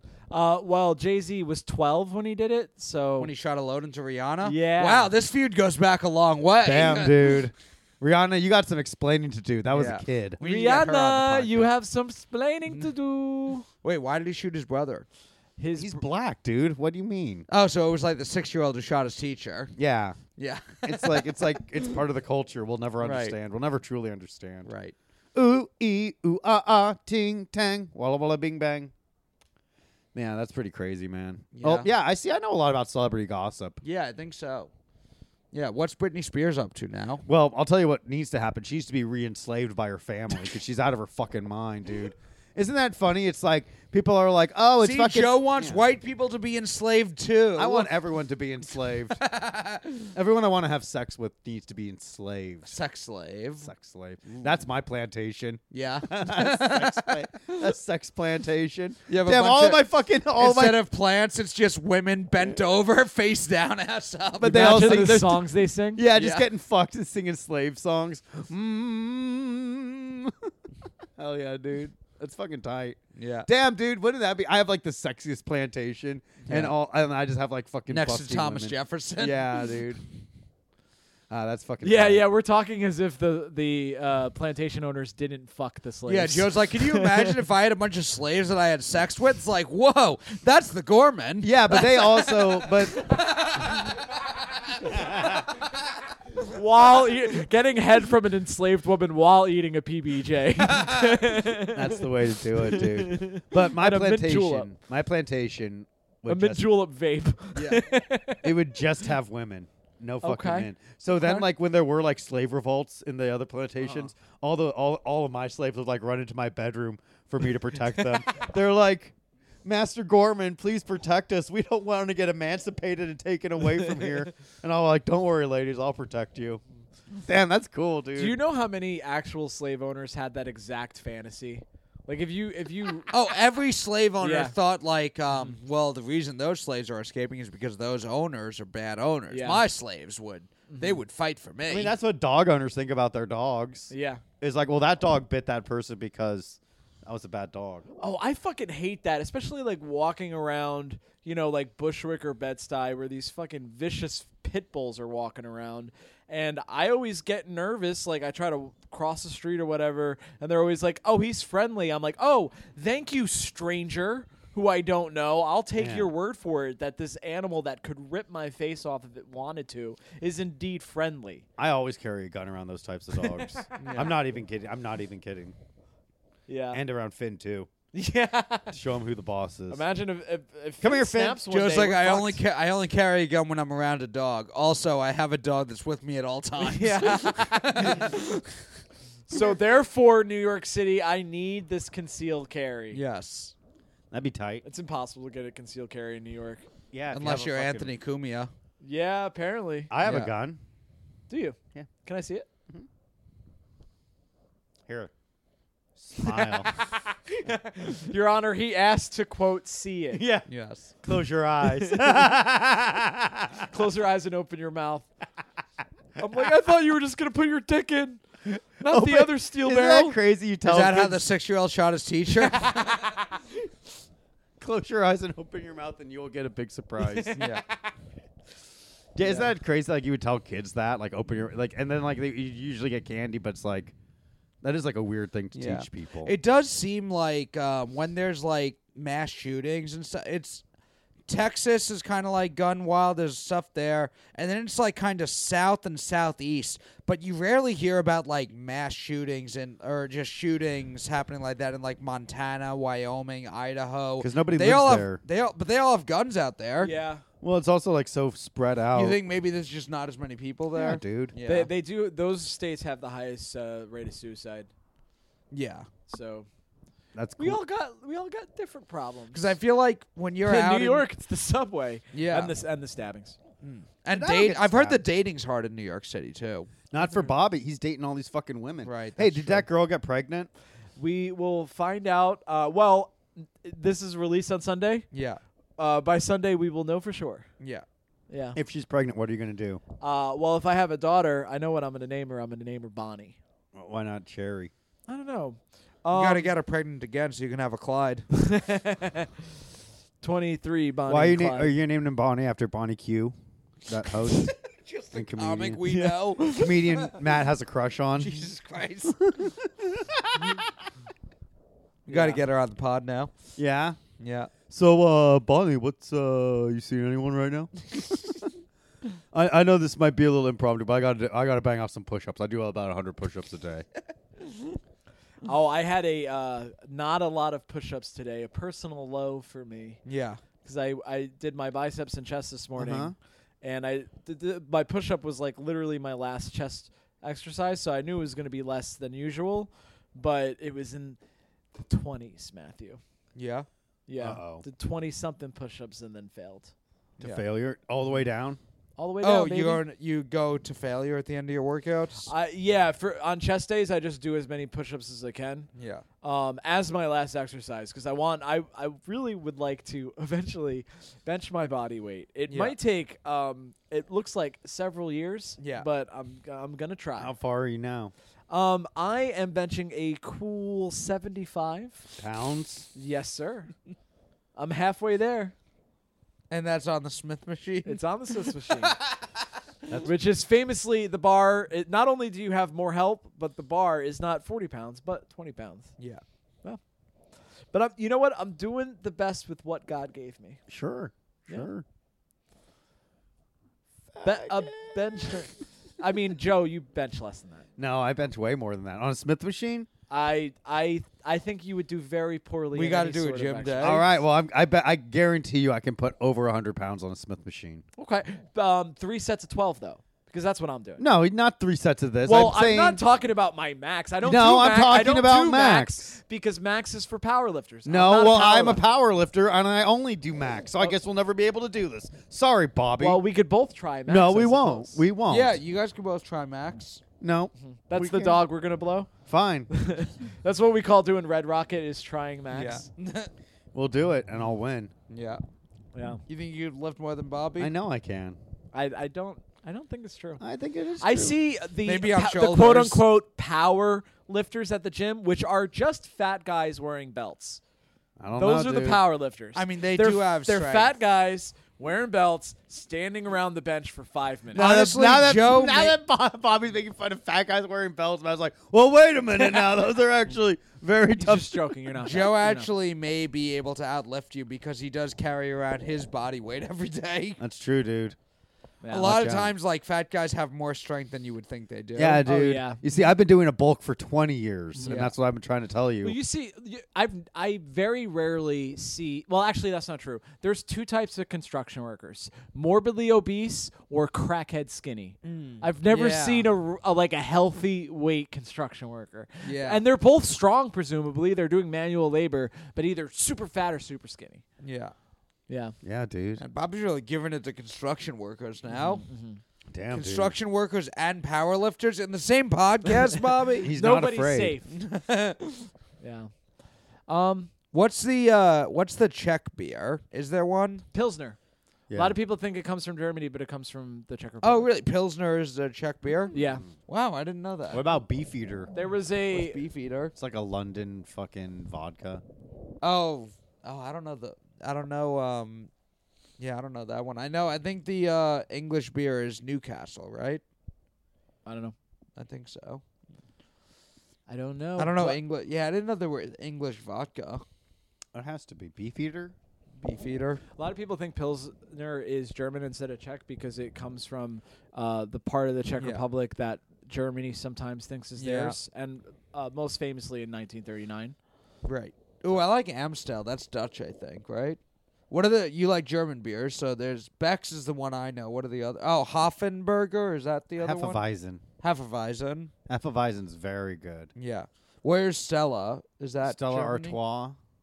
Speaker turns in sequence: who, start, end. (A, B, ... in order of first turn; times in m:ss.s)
0:00.3-0:03.3 A
0:03.2-0:07.5 B
0:04.4-0:05.1 A
0:06.6-0:10.4 C
0:09.7-0:11.7 B
0:10.4-0:13.6 A
0:13.8-0:15.0 B
0:15.6-0:16.0 A
0:15.8-0:17.4 C
0:17.5-0:19.7 B
0:19.8-0:20.2 C
0:20.4-0:22.0 B
0:20.8-0:24.7 C
0:23.0-0:23.4 B
0:24.6-0:24.9 B
0:25.3-0:28.9 C
0:30.1-0:33.8 C
0:31.5-0:31.9 B
0:33.8-0:34.7 B
0:35.5-0:37.2 B
0:37.2-0:45.8 C
0:44.8-0:47.9 B
0:47.6-0:49.2 C
0:49.1-0:50.1 B
0:50.1-0:52.7 C
0:52.7-0:53.7 B
0:53.6-1:00.8 C
0:55.7-0:57.7 B
0:59.1-0:59.8 B
1:00.4-1:05.3 B
1:04.4-1:06.0 A
1:04.4-1:10.5 C
1:06.1-1:06.4 B
1:11.2-1:20.0 C
1:13.2-1:13.5 B
1:16.4-1:16.7 B
1:17.9-1:19.6 B
1:21.3-1:22.2 C
1:21.8-1:27.3 A
1:26.0-1:35.2 B
1:31.4-1:33.0 C
1:34.8-1:35.5 C
1:36.4-1:44.7 A
1:40.6-1:41.3 B
1:41.6-1:46.7 C
1:46.3-1:48.5 A
1:47.5-1:47.8 B
1:48.4-2:06.6 C
1:50.2-1:50.7 A
2:07.1-2:08.4 C
2:08.1-2:13.1 A
2:13.1-2:21.9 B
2:14.2-2:14.5 A
2:15.3-2:15.6 A
2:19.3-2:19.6 A
2:20.7-2:21.0 A
2:21.7-2:27.8 C
2:23.9-2:24.2 A
2:28.0-2:51.4 A
2:45.8-2:46.1 C
2:51.6-2:55.5 C
2:53.2-2:54.1 A
2:53.8-2:54.2 B
2:56.5-2:56.8 A
2:56.7-2:57.7 C
2:57.9-2:58.8 A
2:58.7-2:59.8 C
2:59.7-3:02.4 A
3:00.8-3:01.4 C
3:01.5-3:08.5 B
3:06.6-3:08.2 A
3:09.3-3:13.0 A
3:12.9-3:13.5 B
3:14.1-3:14.6 C
3:14.6-3:16.6 A
3:16.9-3:17.9 C
3:17.1-3:18.5 B
3:18.8-3:20.3 A
3:19.9-3:20.6 C
3:20.0-3:20.3 B
3:21.3-3:22.5 A
3:26.0-3:26.7 C
3:26.2-3:30.2 A
3:30.1-3:30.5 C
3:30.5-3:30.9 B
3:31.0-3:33.7 C
3:31.6-3:32.2 A
3:33.7-3:35.1 A
3:36.2-3:38.2 A
3:38.8-3:40.2 A
3:38.8-3:41.2 C
3:40.6-3:43.2 B
3:44.6-3:47.6 C
3:47.0-3:47.4 A
3:47.3-3:47.6 B
3:49.1-3:53.9 C
3:49.2-3:49.5 A
3:54.6-3:56.3 C
3:55.5-4:00.6 B
4:01.3-4:16.9 B
4:14.2-4:15.2 C
4:16.8-4:17.2 A
4:17.4-4:19.2 C
4:18.9-4:21.7 B
4:20.7-4:21.3 C
4:21.4-4:24.7 A
4:25.5-4:25.9 B
4:26.1-4:26.5 A
4:27.1-4:27.6 C
4:27.4-4:29.5 A
4:29.3-4:31.0 B
4:30.4-4:33.4 A
4:32.1-4:32.5 B
4:33.6-4:36.7 B
4:34.1-4:35.0 C
4:36.9-4:40.5 C
4:37.0-4:37.3 A
4:38.8-4:39.7 B
4:41.0-4:45.1 A
4:45.1-4:45.4 B
4:45.8-4:47.5 A
4:47.6-4:47.8 B
4:48.3-4:48.6 A
4:48.5-4:49.8 C
4:50.0-4:53.4 A
4:53.7-4:54.7 C
4:55.1-4:56.5 A
4:56.1-4:58.2 B
4:58.3-4:59.3 A
5:00.2-5:01.7 A
5:01.1-5:03.3 C
5:03.9-5:04.5 C
5:04.3-5:07.3 B
5:05.1-5:05.8 C
5:05.8-5:06.8 A
5:06.5-5:08.5 C
5:08.2-5:09.3 B
5:09.2-5:10.6 C
5:12.0-5:13.3 B
5:12.1-5:12.4 C
5:13.6-5:14.0 C
5:14.2-5:14.5 B
5:14.7-5:18.5 C
5:19.3-5:23.8 C
5:25.4-5:30.0 A
5:30.0-5:30.4 B
5:30.6-5:41.2 A
5:32.8-5:33.1 C
5:41.7-5:43.0 A
5:43.4-5:43.7 B
5:44.1-5:46.7 A
5:44.2-5:44.6 C
5:47.2-5:47.4 B
5:47.2-5:48.6 C
5:49.0-5:49.8 A
5:49.2-5:52.3 B
5:52.2-5:55.7 A
5:55.8-5:56.0 B
5:56.2-6:07.3 A
6:02.5-6:02.8 B
6:05.6-6:05.8 B
6:07.2-6:08.1 C
6:08.5-6:12.0 A
6:12.2-6:12.9 C
6:12.9-6:13.7 A
6:14.6-6:15.5 A
6:16.5-6:19.2 B
6:17.8-6:19.0 A
6:20.0-6:25.9 A
6:27.7-6:30.6 A
6:30.7-6:31.8 C
6:34.1-6:35.4 C
6:34.2-6:37.6 A
6:37.8-6:39.9 C
6:40.1-6:44.2 A
6:42.7-6:44.0 B
6:43.8-6:47.8 C
6:48.0-6:51.0 A
6:51.0-6:53.0 C
6:52.2-6:58.8 A
6:54.2-6:56.2 C
6:57.8-7:03.2 C
7:03.0-7:05.0 A
7:04.1-7:05.6 C
7:05.3-7:07.0 B
7:07.2-7:08.4 C
7:07.6-7:09.1 A
7:09.3-7:09.7 C
7:09.7-7:12.9 A
7:12.5-7:13.3 B
7:13.7-7:14.9 C
7:15.1-7:15.4 B
7:15.9-7:16.2 A
7:16.3-7:17.7 B
7:17.6-7:18.4 C
7:18.7-7:20.4 A
7:20.4-7:21.4 C
7:21.0-7:27.6 A
7:21.8-7:23.0 B
7:28.2-7:29.0 C
7:28.4-7:34.7 A
7:29.5-7:30.9 B
7:34.5-7:36.0 B
7:34.5-7:41.7 C
7:39.3-7:39.8 B
7:41.2-7:42.7 A
7:42.0-7:47.4 B
7:47.4-7:48.2 C
7:48.8-7:49.1 A
7:48.9-7:52.2 B
7:48.9-7:49.5 C
7:51.9-7:56.2 C
7:52.2-7:52.8 A
7:54.8-7:55.1 A
7:54.8-7:55.1 B
7:56.0-8:14.4 A
8:05.2-8:06.5 B
8:09.4-8:09.8 B
8:14.6-8:14.9 B
8:15.5-8:15.7 A
8:15.8-8:16.4 C
8:16.4-8:19.0 B
8:18.7-8:19.4 A
8:19.7-8:20.3 C
8:19.9-8:23.7 B
8:23.6-8:24.6 C
8:23.7-8:24.7 A
8:24.7-8:25.7 B
8:26.0-8:26.3 A
8:27.1-8:27.5 A
8:27.7-8:30.8 B
8:30.9-8:31.4 A
8:31.9-8:32.2 C
8:31.9-8:34.7 A
8:34.4-8:36.3 B
8:36.3-8:36.6 A
8:36.3-8:36.7 C
8:36.9-8:37.8 B
8:37.7-8:38.7 C
8:38.7-8:39.6 A
8:39.3-8:40.1 B
8:40.1-8:42.2 C
8:42.8-8:45.7 B
8:46.4-8:50.4 B
8:51.4-8:51.7 A
8:52.2-8:52.8 B
8:54.3-8:55.2 A
8:54.8-8:57.4 B
8:58.1-8:59.3 C
8:59.8-9:00.4 B
9:00.6-9:11.1 A
9:08.2-9:08.6 B
9:11.6-9:14.6 B
9:15.1-9:21.0 B
9:20.6-9:21.4 C
9:21.6-9:22.5 B
9:22.7-9:24.1 C
9:24.2-9:27.0 B
9:26.2-9:27.4 C